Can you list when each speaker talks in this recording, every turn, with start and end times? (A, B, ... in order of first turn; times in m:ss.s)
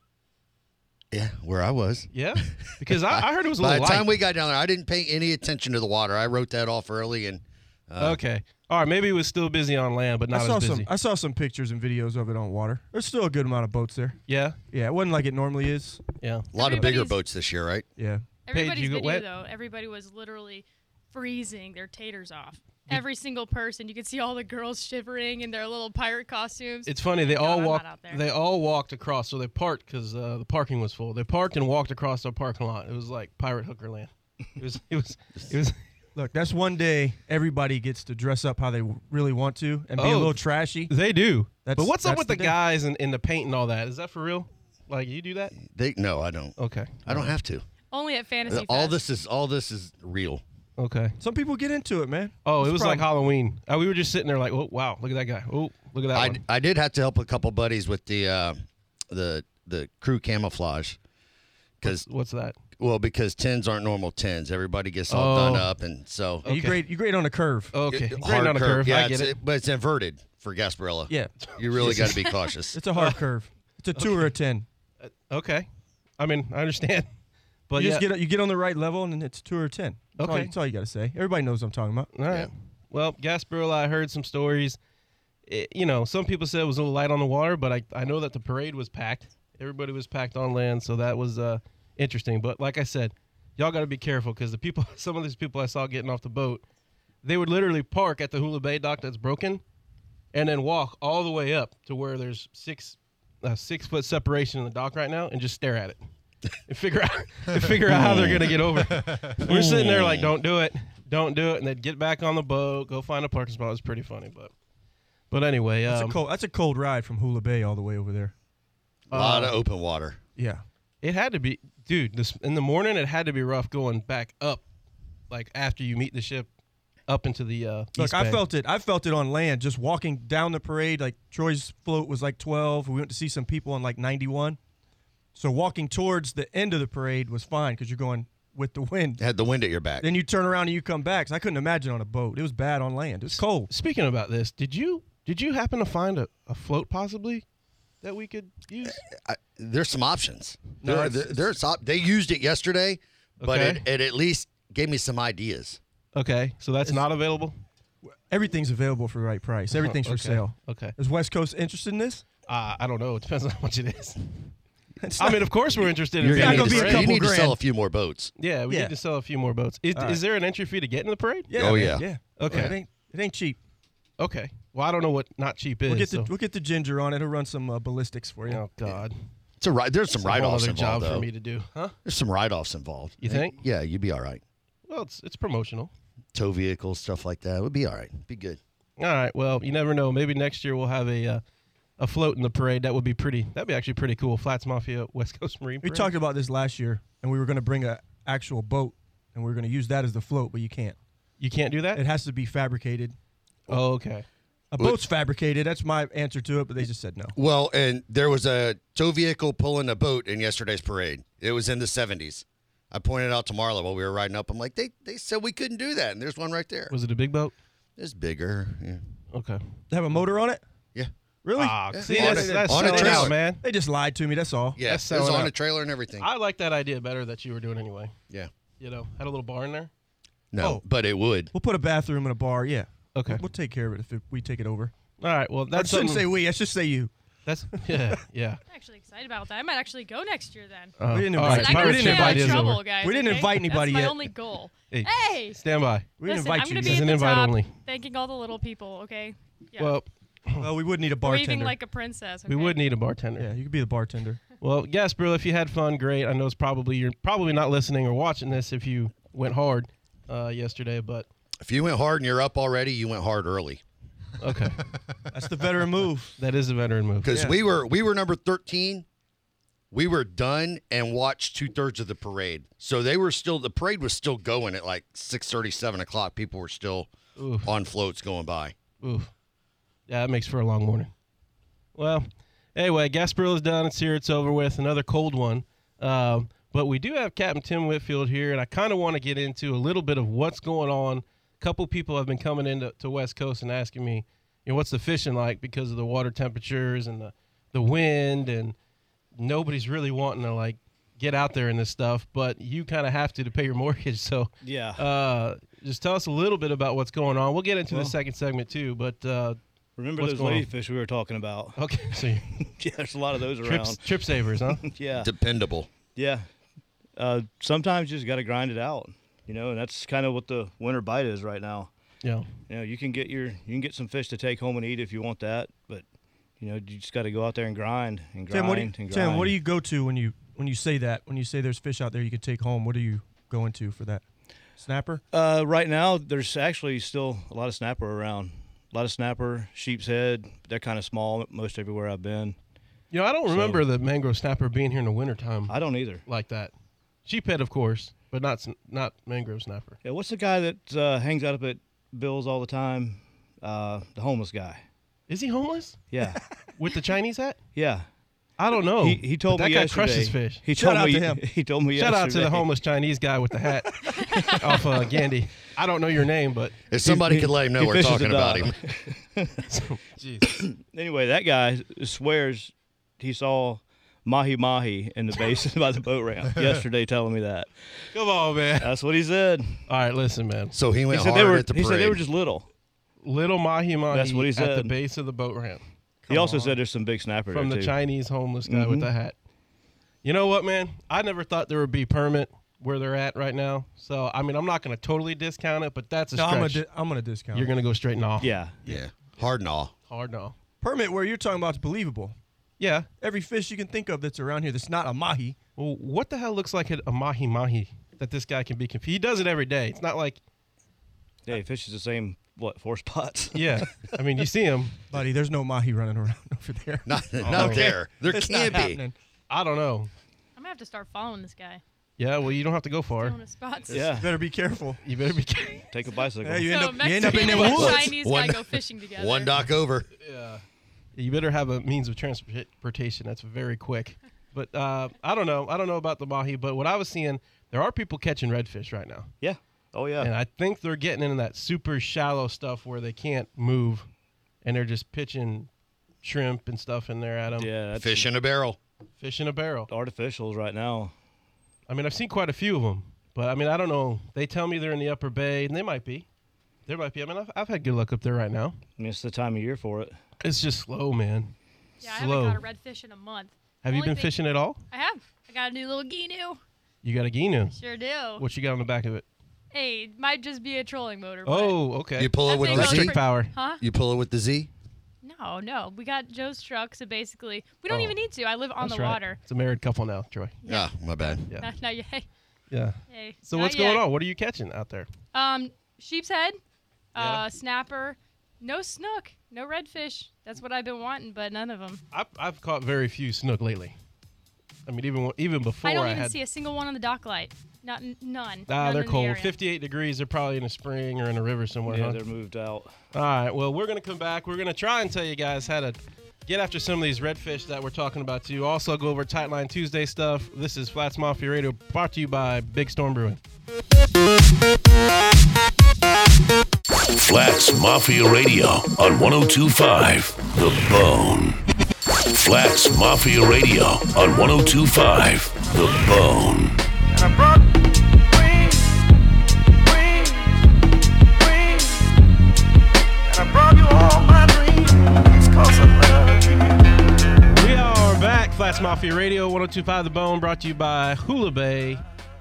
0:01.1-0:08.2 A
0:02.1-0:04.2 B
0:08.0-0:10.9 B
0:10.3-0:14.2 C
0:14.3-0:14.6 B
0:14.7-0:16.0 C
0:16.2-0:16.5 B
0:16.5-0:17.2 D
0:16.5-0:17.8 A
0:18.0-0:18.2 C
0:18.5-0:28.2 D
0:18.5-0:19.2 B
0:26.8-0:35.8 B
0:36.2-0:40.9 C
0:40.0-0:45.5 B
0:41.6-0:42.6 C
0:45.6-0:47.6 A
0:46.6-0:47.3 B
0:47.9-0:49.0 D
0:48.5-0:50.4 A
0:50.8-0:51.2 B
0:51.2-0:53.1 C
0:52.4-0:56.4 B
0:56.1-1:01.0 A
1:01.8-1:02.0 A
1:01.8-1:02.6 B
1:02.8-1:06.4 A
1:05.1-1:05.7 B
1:06.4-1:06.8 B
1:06.4-1:07.8 C
1:07.7-1:09.3 B
1:07.9-1:12.8 A
1:11.1-1:14.7 C
1:11.5-1:12.4 B
1:13.9-1:14.3 B
1:15.0-1:17.1 B
1:17.7-1:18.1 B
1:17.8-1:22.1 C
1:20.2-1:20.5 B
1:22.1-1:24.8 B
1:25.4-1:36.6 B
1:37.2-1:39.6 B
1:40.3-1:46.0 B
1:46.6-1:54.5 B
1:47.7-1:50.3 A
1:55.3-1:56.2 B
1:55.9-1:58.3 C
1:59.1-1:59.6 B
1:59.1-2:00.2 A
2:00.4-2:00.6 C
2:01.0-2:04.6 B
2:05.3-2:06.5 B
2:07.1-2:08.4 B
2:07.9-2:14.6 C
2:15.3-2:19.2 C
2:19.2-2:20.0 A
2:20.0-2:23.7 C
2:23.3-2:27.4 B
2:28.0-2:29.0 B
2:28.9-2:35.8 A
2:30.8-2:31.5 C
2:33.4-2:33.8 B
2:36.1-2:37.6 B
2:38.0-2:42.2 C
2:39.8-2:40.9 B
2:42.5-2:44.5 B
2:45.0-2:47.6 C
2:45.2-2:47.1 B
2:46.2-2:48.3 A
2:48.4-2:51.6 B
2:48.7-2:48.9 C
2:49.9-2:50.2 C
2:51.5-2:53.6 C
2:51.6-2:52.7 A
2:52.4-2:52.8 B
2:54.2-2:56.3 B
2:55.8-2:58.6 C
2:58.5-2:59.1 B
2:59.6-3:01.3 A
3:00.2-3:02.0 B
3:02.0-3:04.4 A
3:03.2-3:03.6 B
3:04.9-3:05.9 B
3:06.3-3:08.6 A
3:09.0-3:11.4 B
3:12.0-3:16.1 B
3:15.8-3:21.0 C
3:21.4-3:22.0 B
3:21.9-3:23.2 C
3:23.7-3:24.2 B
3:24.7-3:27.3 C
3:27.3-3:36.9 A
3:36.9-3:37.5 B
3:38.0-3:39.0 A
3:39.3-3:39.6 B
3:39.9-3:40.6 C
3:41.4-3:44.8 C
3:41.6-3:43.6 B
3:41.9-3:43.4 A
3:44.8-3:46.3 A
3:44.8-3:45.5 B
3:46.2-3:48.1 B
3:48.8-3:49.9 B
3:50.5-3:51.5 A
3:51.5-3:54.9 C
3:53.1-3:53.4 B
3:55.2-3:56.3 B
3:55.7-3:57.1 C
3:57.4-3:58.6 B
3:57.7-3:58.0 C
3:58.7-4:05.6 D
4:01.0-4:02.8 B
4:01.1-4:04.3 C
4:04.9-4:06.1 B
4:06.2-4:07.1 C
4:06.2-4:09.9 D
4:06.8-4:07.7 B
4:09.8-4:10.6 B
4:10.6-4:11.8 C
4:11.2-4:12.8 D
4:12.5-4:13.5 B
4:13.4-4:14.4 C
4:14.6-4:21.3 B
4:21.6-4:23.8 A
4:24.4-4:24.8 B
4:25.3-4:26.4 C
4:26.4-4:27.3 B
4:27.2-4:29.0 A
4:27.2-4:27.6 C
4:29.9-4:37.1 A
4:37.4-4:37.7 B
4:37.6-4:38.7 A
4:39.0-4:39.3 B
4:40.1-4:41.1 B
4:41.9-4:58.8 B
4:59.4-5:09.6 B
5:04.6-5:05.0 E
5:07.9-5:08.1 E
5:10.0-5:11.8 E
5:10.1-5:10.7 B
5:11.8-5:12.5 B
5:12.5-5:15.3 E
5:13.6-5:14.9 B
5:15.2-5:15.9 A
5:16.1-5:16.4 E
5:17.2-5:21.9 E
5:22.7-5:26.0 E
5:26.6-5:29.5 E
5:28.5-5:34.2 C
5:34.8-5:35.2 C
5:35.3-5:42.6 E
5:43.1-5:46.7 B
5:43.5-5:43.8 E
5:45.7-5:46.2 E
5:47.2-5:50.0 B
5:50.0-5:54.8 E
5:55.3-5:56.1 B
5:56.1-5:56.4 E
5:56.8-5:57.6 B
5:57.7-5:58.0 E
5:58.6-6:00.6 B
5:58.9-6:02.7 E
6:00.7-6:01.4 C
6:01.9-6:06.8 B
6:06.9-6:08.8 A
6:07.0-6:09.6 E
6:09.7-6:10.6 B
6:10.4-6:18.0 E
6:18.1-6:18.9 B
6:18.8-6:19.8 E
6:19.9-6:20.8 B
6:20.7-6:22.2 A
6:21.1-6:22.7 E
6:23.2-6:25.8 B
6:24.1-6:24.9 E
6:26.2-6:26.8 C
6:26.3-6:28.0 E
6:27.5-6:29.3 B
6:28.7-6:29.1 E
6:30.2-6:36.8 B
6:36.3-6:37.7 C
6:37.5-6:39.0 B
6:38.4-6:38.8 E
6:38.8-6:39.9 A
6:40.1-6:40.5 B
6:40.8-6:42.4 C
6:42.8-6:43.1 B
6:43.2-6:45.6 C
6:45.8-6:50.4 B
6:51.4-6:53.7 E
6:53.5-6:55.0 B
6:55.1-6:59.2 C
6:57.0-6:59.0 A
6:57.5-6:57.8 B
6:59.5-7:00.1 B
7:00.6-7:01.8 D
7:02.2-7:03.3 B
7:03.2-7:04.2 D
7:03.9-7:04.3 E
7:04.0-7:05.0 C
7:05.0-7:05.9 B
7:05.9-7:06.7 E
7:06.4-7:08.1 C
7:06.7-7:09.6 D
7:07.2-7:10.1 A
7:10.2-7:10.6 B
7:11.2-7:19.3 B
7:19.4-7:20.3 E
7:20.2-7:24.1 B
7:24.6-7:25.7 B
7:26.2-7:27.7 B
7:27.6-7:28.3 E
7:28.0-7:28.8 A
7:29.2-7:29.9 B
7:29.9-7:31.1 E
7:31.9-7:36.3 B
7:36.9-7:38.8 B
7:39.0-7:40.2 E
7:40.4-7:42.6 B
7:42.0-7:44.3 D
7:43.8-7:44.8 B
7:44.9-7:46.6 D
7:47.0-7:47.8 B
7:47.8-7:48.4 D
7:48.4-7:49.2 B
7:49.7-7:51.8 D
7:51.4-7:53.5 B
7:52.2-7:54.7 A
7:52.4-7:53.8 D
7:55.2-7:59.4 D
7:57.9-7:58.2 B
7:58.8-8:00.6 B
8:00.6-8:01.4 A
8:00.6-8:02.3 D
8:02.7-8:05.1 B
8:03.1-8:04.0 D
8:05.3-8:06.6 D
8:07.1-8:12.0 D
8:07.2-8:07.4 B
8:12.1-8:13.9 B
8:14.9-8:16.4 B
8:15.8-8:19.6 D
8:18.7-8:22.2 B
8:21.9-8:22.9 E
8:23.1-8:33.4 B
8:37.2-8:41.6 F
8:42.3-8:46.8 F
8:53.4-8:54.9 B
8:55.6-8:56.1 B
8:57.4-9:02.0 B